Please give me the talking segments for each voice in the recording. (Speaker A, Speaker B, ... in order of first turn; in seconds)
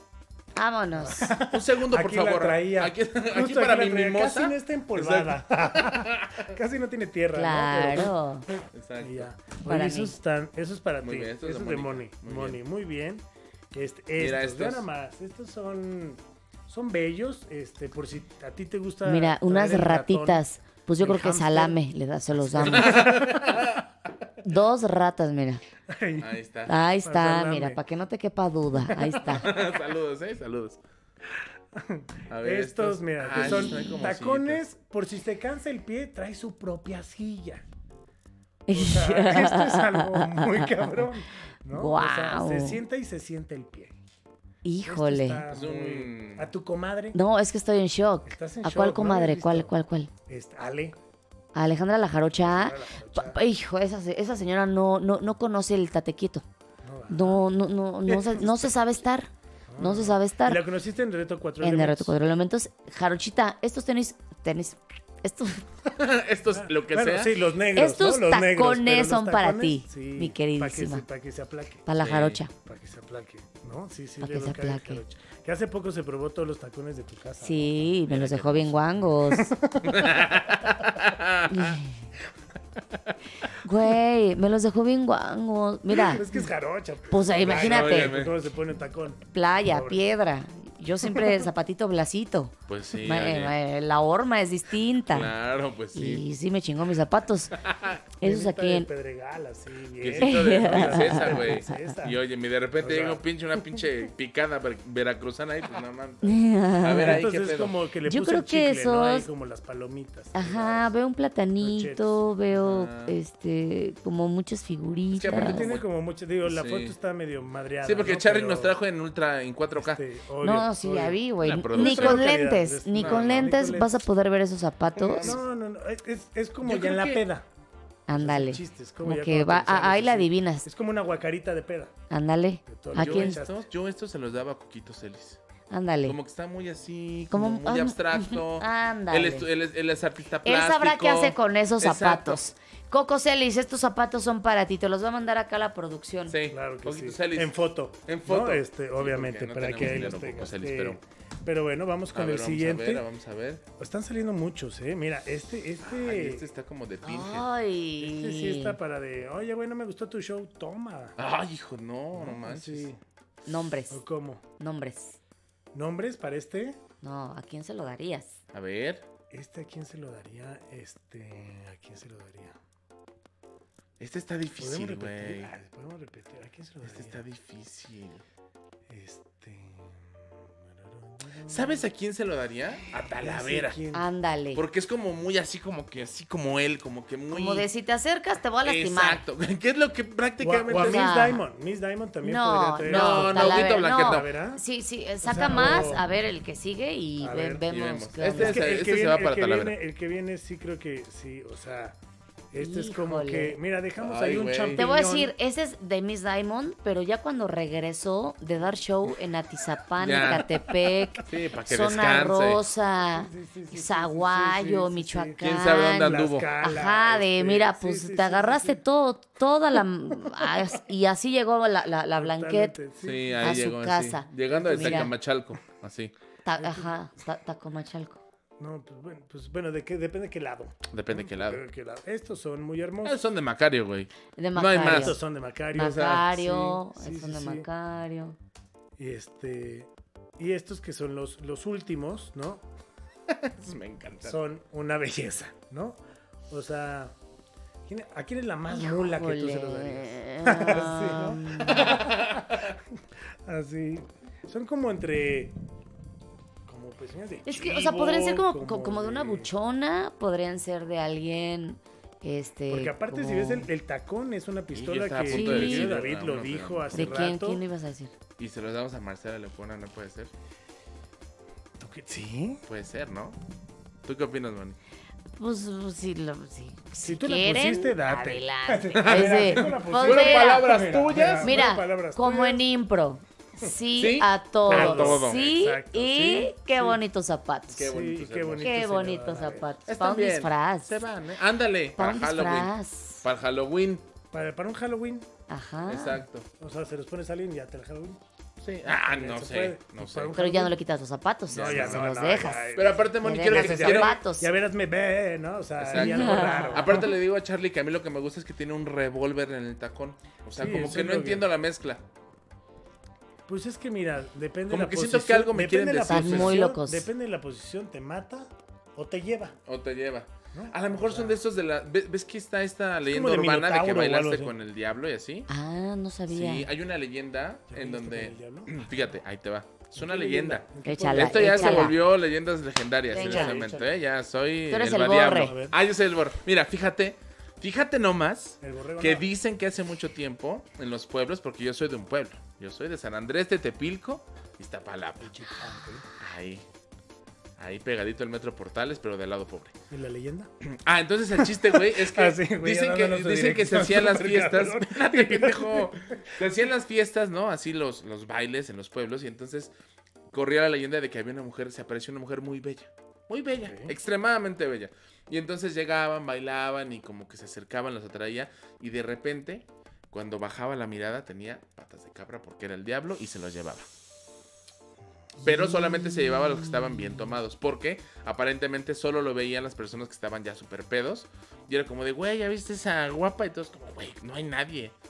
Speaker A: 0.6-1.4, 7.3-8.5, 9.6-10.2, 19.0-23.2, 24.4-25.6, 26.7-29.5, 38.7-41.1, 41.7-42.8, 44.6-45.4, 47.1-50.1, 51.5-56.5, 57.1-60.6, 61.6-65.7, 67.8-71.0, 71.9-72.5, 74.2-75.0, 77.4-79.6, 81.5-82.1, 83.5-86.2, 87.1-88.2, 89.3-95.3, 95.9-97.6, 98.2-98.9, 100.2-101.8, 106.2-107.2, 108.0-109.3, 110.3-115.7, 120.4-125.4, 128.1-130.7, 132.1-133.4, 135.7-136.2, 137.3-139.5, 140.4-146.4, 157.0-158.8, 163.5-164.0, 164.6-165.2, 167.0-168.4, 183.9-184.6, 187.3-189.2, 190.7-191.4, 192.2-198.8, 202.6-203.6, 204.8-222.8, 223.4-225.1, 226.4-228.2, 234.4-235.2, 235.7-238.4, 248.7-252.0, 257.5-263.7, 265.3-266.0, 266.9-268.1, 275.4-280.6, 281.4-287.8, 288.6-291.0, 292.0-293.2, 295.5-296.2, 300.3-304.5, 305.9-307.0, 316.1-317.1, 325.5-326.7, 330.8-332.0, 333.1-333.6, 334.7-335.6
Speaker B: 0.9-20.4, 21.0-21.8, 22.3-23.8, 25.9-26.4, 27.0-27.8, 28.7-29.5, 31.4-37.6, 38.7-44.0, 44.8-47.2, 48.3-49.7, 50.3-51.0, 52.4-53.4, 56.8-57.4, 58.1-58.7, 59.7-62.1, 66.5-71.9, 72.6-77.9, 79.3-80.7, 85.9-90.0, 91.1-91.4, 98.2-102.2, 102.8-103.2, 107.0-110.9, 111.6-112.2, 115.3-118.8, 119.8-124.1, 125.2-127.5, 128.1-131.9, 132.7-133.6, 146.5-153.1, 153.8-156.5, 158.0-161.2, 162.1-163.0, 163.9-164.4, 165.7-166.8, 169.3-172.6, 174.6-177.2, 178.9-181.9, 183.1-184.1, 190.4-194.6, 195.2-196.1, 197.2-197.7, 198.3-202.0, 202.5-205.3, 213.1-215.4, 216.0-218.8, 220.2-220.7, 222.1-223.6, 224.5-225.1, 226.6-226.9, 228.6-233.2, 234.8-237.7, 239.0-242.7, 244.2-247.2, 247.9-255.6, 256.7-259.5, 262.7-267.6, 271.8-272.6, 277.0-282.7, 284.7-287.0, 287.8-289.7, 294.3-295.3, 296.6-298.2, 298.9-300.8, 301.5-307.1, 310.6-311.5, 313.5-319.6, 320.5-321.4, 323.1-324.6, 327.7-328.9, 330.0-332.0, 333.1-333.9, 335.3-335.8, 338.6-339.3, 345.2-346.1, 349.9-350.5, 351.4-356.4, 363.6-363.9
Speaker C: 1.4-6.5, 8.7-9.3, 11.0-12.6, 14.2-14.9, 22.6-23.9, 26.2-26.7, 29.3-30.8, 32.3-34.6, 45.5-46.5, 66.0-67.3, 72.0-72.4, 78.1-78.9, 79.8-81.8, 87.4-88.4, 92.7-93.6, 95.1-96.2, 97.5-98.0, 100.0-107.8, 112.5-113.2, 115.1-115.8, 116.5-117.0, 117.8-120.1, 121.4-122.3, 122.9-123.5, 125.0-125.4, 126.6-127.2, 133.0-135.4, 136.1-142.4, 146.3-147.6, 148.1-151.0, 152.1-153.6, 155.8-157.5, 161.2-162.9, 168.5-169.1, 174.0-175.5, 176.8-178.2, 181.5-183.8, 184.6-187.7, 188.6-191.1, 192.8-194.3, 197.7-199.8, 204.0-204.8, 210.0-210.7, 211.2-212.7, 215.4-216.5, 223.0-226.1, 230.9-231.6, 233.1-235.2, 243.3-244.4, 251.7-252.7, 264.7-267.2, 268.4-270.3, 272.7-273.4, 274.0-274.8, 278.9-281.6, 284.0-285.4, 287.7-288.7, 289.9-294.0, 295.9-296.5, 298.6-300.4, 301.5-302.1, 302.7-304.2, 305.8-312.0, 314.7-316.6, 319.7-325.5, 326.3-345.3, 346.2-346.6, 347.6-349.7, 350.6-359.7, 360.3-373.9, 375.4-384.9